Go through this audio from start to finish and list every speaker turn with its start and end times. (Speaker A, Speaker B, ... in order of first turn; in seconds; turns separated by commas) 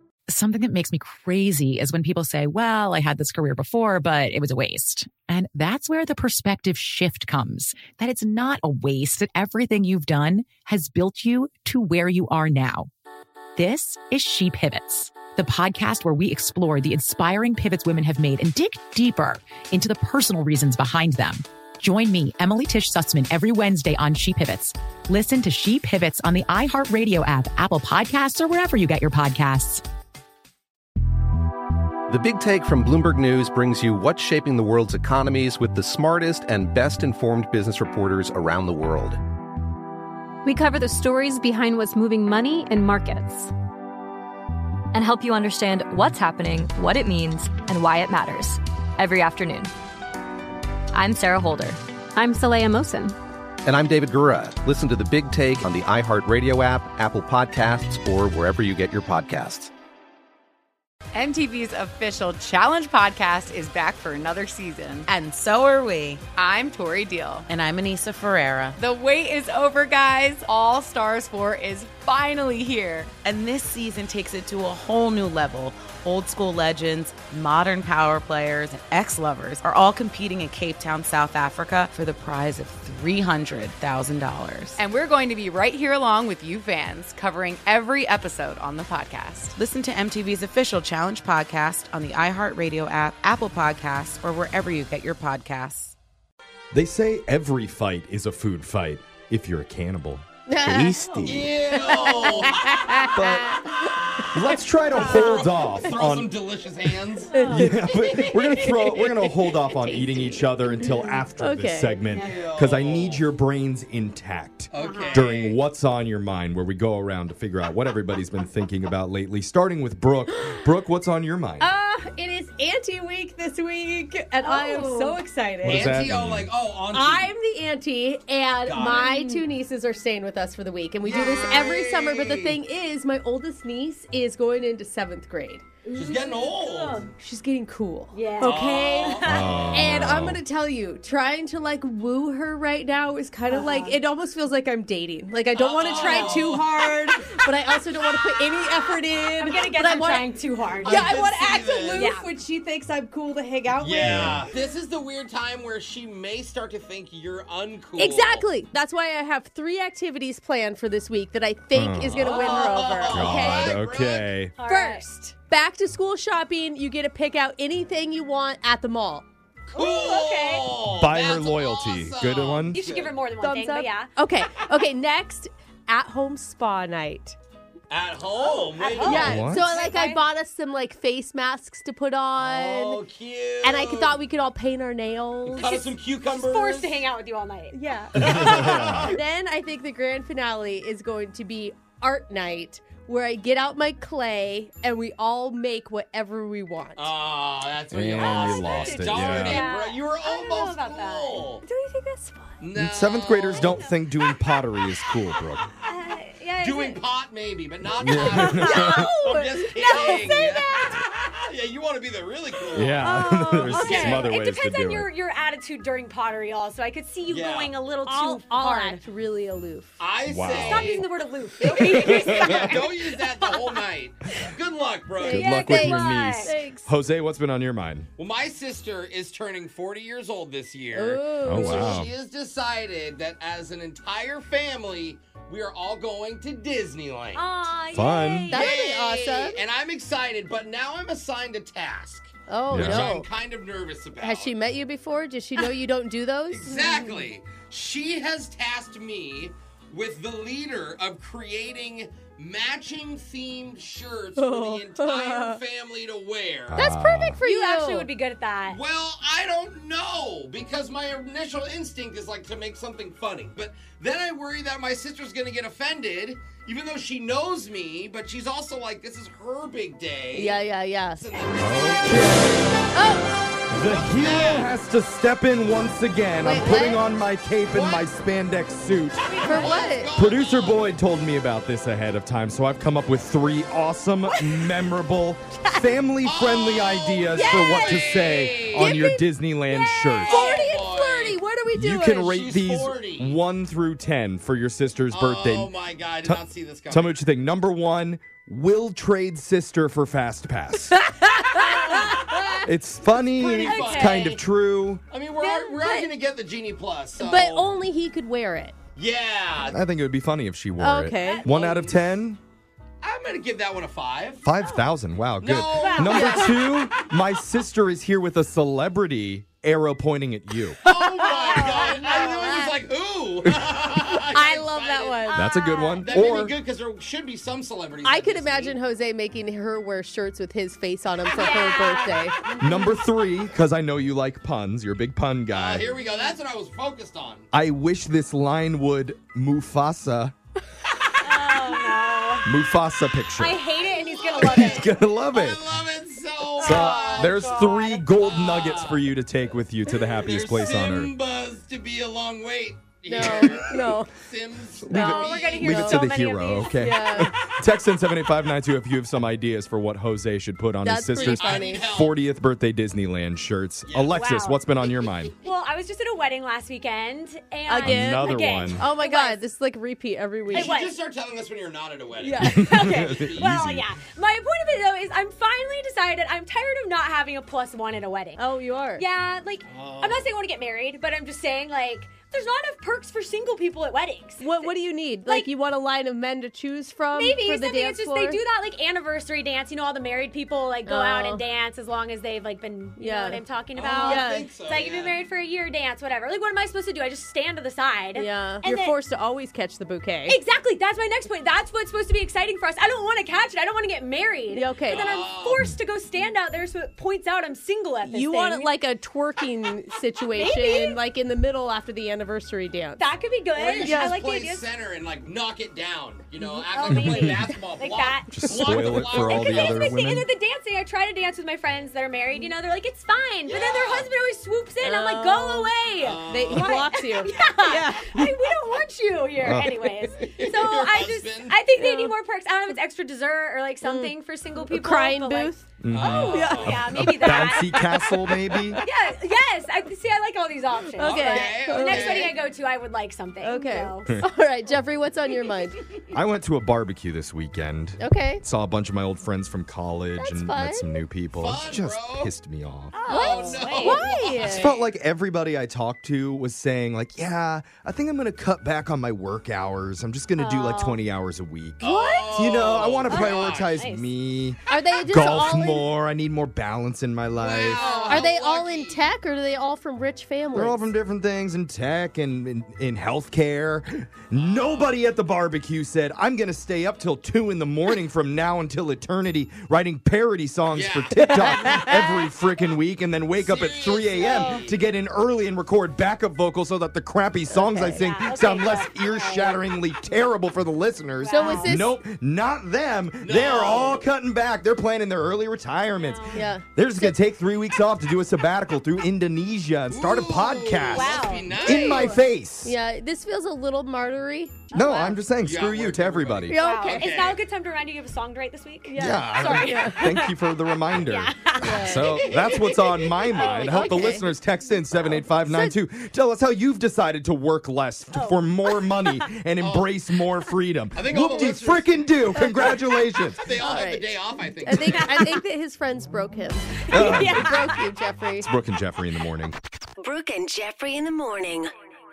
Speaker A: 0.3-12.9, Speaker A: 13.6-29.8, Speaker B: 32.1-39.2, Speaker C: 40.5-43.5, Speaker D: 44.9-49.7, Speaker D: 50.9-51.8, Speaker C: 52.1-53.1, Speaker B: 53.6-59.7, Speaker E: 61.1-65.1, Speaker F: 65.1-66.3, Speaker E: 66.3-67.5, Speaker F: 67.5-68.8, Speaker E: 68.8-73.1, Speaker F: 73.2-84.8, Speaker E: 84.8-89.6, Speaker F: 85.9-88.2, Speaker F: 89.5-95.9, Speaker G: 96.7-100.2, Speaker H: 100.5-104.0, Speaker I: 100.7-101.1, Speaker J: 101.1-103.0, Speaker G: 103.1-103.5, Speaker G: 104.3-106.3, Speaker H: 104.9-105.9, Speaker J: 105.0-109.0, Speaker H: 107.3-108.9, Speaker G: 107.5-121.7, Speaker H: 109.9-112.0, Speaker J: 112.1-113.2, Speaker J: 114.7-115.6, Speaker K: 114.8-115.4, Speaker H: 121.6-125.8, Speaker K: 124.4-125.2, Speaker G: 125.6-126.5, Speaker J: 125.7-127.3, Speaker H: 126.9-135.6, Speaker J: 128.6-129.2, Speaker K: 129.1-129.4, Speaker J: 131.0-132.6, Speaker K: 135.9-137.1, Speaker J: 135.9-137.1, Speaker H: 137.2-150.3, Speaker K: 138.1-139.6, Speaker J: 138.4-139.9, Speaker G: 139.2-140.4, Speaker K: 143.5-144.0, Speaker J: 145.5-147.1, Speaker K: 145.8-146.5, Speaker K: 149.3-151.1, Speaker J: 150.7-152.1, Speaker H: 150.8-154.4, Speaker K: 151.9-152.3, Speaker J: 153.7-158.5, Speaker G: 154.0-154.4, Speaker H: 157.9-163.8, Speaker G: 161.7-162.3, Speaker J: 162.1-164.3, Speaker G: 163.1-164.5, Speaker K: 164.6-165.0, Speaker H: 164.7-169.2, Speaker J: 169.7-173.2, Speaker K: 169.7-170.7, Speaker G: 170.9-172.8, Speaker K: 172.7-174.1, Speaker H: 173.4-177.3, Speaker J: 177.9-179.5, Speaker K: 178.7-180.2, Speaker H: 179.0-183.0, Speaker G: 179.2-179.7, Speaker J: 182.3-184.2, Speaker H: 183.6-185.8, Speaker J: 185.5-187.1, Speaker K: 185.6-188.8, Speaker H: 187.7-197.1, Speaker J: 188.2-189.2, Speaker G: 188.2-189.1, Speaker J: 196.9-201.6, Speaker G: 197.9-199.7, Speaker K: 198.2-202.6, Speaker J: 202.6-203.8, Speaker G: 202.8-205.7, Speaker K: 203.5-203.9, Speaker K: 204.8-207.0, Speaker J: 206.6-213.1, Speaker G: 208.0-209.1, Speaker K: 208.1-211.0, Speaker K: 212.7-219.0, Speaker G: 212.7-215.1, Speaker J: 217.2-217.8, Speaker H: 218.1-220.0, Speaker J: 220.0-221.1, Speaker G: 220.3-221.0, Speaker K: 220.6-223.8, Speaker J: 221.6-225.5, Speaker G: 221.9-222.5, Speaker H: 225.2-226.9, Speaker G: 225.2-228.1, Speaker K: 225.3-226.5, Speaker J: 228.2-237.7, Speaker H: 230.9-232.1, Speaker G: 231.4-232.1, Speaker K: 237.3-238.7, Speaker G: 237.9-238.7, Speaker H: 238.5-239.6, Speaker J: 238.5-244.5, Speaker H: 242.5-243.3, Speaker G: 242.7-243.1, Speaker H: 244.2-247.3, Speaker J: 246.5-256.9, Speaker H: 254.4-255.6, Speaker G: 256.7-257.4, Speaker H: 256.7-258.1, Speaker K: 257.4-258.8, Speaker J: 258.6-274.7, Speaker H: 270.3-271.2, Speaker G: 271.6-272.7, Speaker H: 272.9-273.3, Speaker G: 273.7-279.3, Speaker H: 276.4-277.0, Speaker J: 277.7-278.1, Speaker J: 279.2-280.9, Speaker K: 279.3-279.8, Speaker H: 279.4-280.1, Speaker G: 280.1-290.5, Speaker J: 286.2-289.0, Speaker H: 287.4-288.0, Speaker H: 288.7-292.3, Speaker J: 290.1-291.4, Speaker G: 291.7-295.7, Speaker J: 292.2-293.4, Speaker J: 295.1-297.2, Speaker G: 296.2-301.0, Speaker H: 301.5-302.6, Speaker J: 301.6-302.1, Speaker G: 302.6-305.0, Speaker K: 303.4-304.4, Speaker J: 303.4-304.4, Speaker J: 305.1-307.8, Speaker K: 305.4-306.1, Speaker H: 307.2-308.8, Speaker J: 308.9-309.8, Speaker G: 309.6-312.4, Speaker H: 310.8-311.4, Speaker K: 311.2-311.5, Speaker J: 311.4-312.1, Speaker J: 313.0-314.5, Speaker G: 314.4-320.8, Speaker J: 315.4-317.0, Speaker K: 315.8-316.4, Speaker H: 316.1-316.8, Speaker J: 320.8-325.4, Speaker H: 321.2-322.7, Speaker K: 321.5-322.5, Speaker H: 324.3-325.6, Speaker K: 325.3-326.1, Speaker G: 325.3-326.5, Speaker J: 326.0-328.8, Speaker H: 328.0-332.4, Speaker K: 331.3-333.0, Speaker G: 332.6-335.9, Speaker J: 335.5-337.5, Speaker K: 336.0-336.3, Speaker G: 337.5-340.3, Speaker K: 341.2-342.5, Speaker G: 342.4-343.6, Speaker K: 343.4-344.9, Speaker J: 343.7-344.7, Speaker G: 344.4-345.6, Speaker J: 345.2-349.1, Speaker G: 346.6-351.1, Speaker K: 346.6-348.0, Speaker J: 350.2-355.9, Speaker H: 353.1-354.1, Speaker H: 354.9-356.1, Speaker K: 354.9-356.8, Speaker G: 355.6-365.3, Speaker H: 356.7-357.3, Speaker H: 360.8-361.8, Speaker J: 361.1-362.2, Speaker J: 363.9-364.2, Speaker K: 364.1-364.6, Speaker K: 365.4-369.4, Speaker H: 367.6-370.8, Speaker G: 367.8-368.8, Speaker J: 370.5-373.6, Speaker K: 370.5-370.9, Speaker H: 372.2-372.7, Speaker G: 372.4-373.8, Speaker K: 372.4-378.4, Speaker H: 378.4-379.0, Speaker K: 378.9-384.7, Speaker J: 379.6-380.3, Speaker H: 384.4-388.4, Speaker K: 387.1-398.9, Speaker H: 390.9-391.4, Speaker H: 393.0-394.5, Speaker J: 393.7-395.2, Speaker H: 398.1-400.4, Speaker K: 400.3-408.8, Speaker H: 404.5-405.0, Speaker J: 404.9-405.6, Speaker H: 408.0-413.0, Speaker K: 410.3-411.0, Speaker K: 412.9-414.7, Speaker J: 413.5-419.9, Speaker H: 413.8-414.1, Speaker K: 416.7-437.9, Speaker G: 416.9-417.3, Speaker G: 418.3-420.3, Speaker J: 423.4-424.1, Speaker H: 424.8-425.7, Speaker J: 425.9-426.8, Speaker H: 426.3-428.5, Speaker G: 429.4-429.9, Speaker J: 430.1-431.6, Speaker H: 431.7-432.1, Speaker H: 433.8-438.8, Speaker G: 435.8-438.8, Speaker J: 435.9-436.8, Speaker K: 438.8-444.2, Speaker H: 441.0-442.3, Speaker J: 441.2-442.3, Speaker H: 443.4-445.8, Speaker G: 446.1-453.0, Speaker H: 448.0-448.4, Speaker H: 450.1-451.1, Speaker J: 451.3-452.3, Speaker K: 452.9-454.3, Speaker J: 453.0-454.9, Speaker H: 453.1-454.7, Speaker G: 454.5-467.8, Speaker H: 460.4-461.0, Speaker J: 461.8-463.8, Speaker K: 461.8-464.1, Speaker H: 464.7-465.9, Speaker J: 467.3-469.1, Speaker K: 467.8-468.2, Speaker H: 468.1-470.8, Speaker G: 470.5-502.8, Speaker J: 474.3-474.9, Speaker J: 480.7-481.8, Speaker J: 483.4-484.7, Speaker K: 484.2-484.6, Speaker H: 487.5-488.0, Speaker K: 487.9-489.6, Speaker K: 491.2-491.7, Speaker H: 491.3-492.0, Speaker J: 493.2-494.0, Speaker K: 496.0-496.5, Speaker H: 496.3-497.2, Speaker J: 499.9-502.2, Speaker K: 500.9-501.6, Speaker H: 501.6-505.2, Speaker G: 504.7-506.6, Speaker K: 504.8-505.1, Speaker J: 505.3-507.4, Speaker H: 506.4-507.1, Speaker K: 506.6-514.3, Speaker H: 508.9-510.0, Speaker G: 509.0-523.5, Speaker H: 511.6-512.3, Speaker J: 512.0-512.9, Speaker J: 513.4-513.7, Speaker H: 513.6-514.3, Speaker H: 515.1-515.8, Speaker K: 518.1-519.2, Speaker J: 519.6-519.9, Speaker J: 520.9-525.3, Speaker H: 523.6-528.5, Speaker K: 524.9-525.4, Speaker K: 526.9-527.8, Speaker G: 526.9-527.6, Speaker G: 528.4-529.5, Speaker I: 530.0-531.7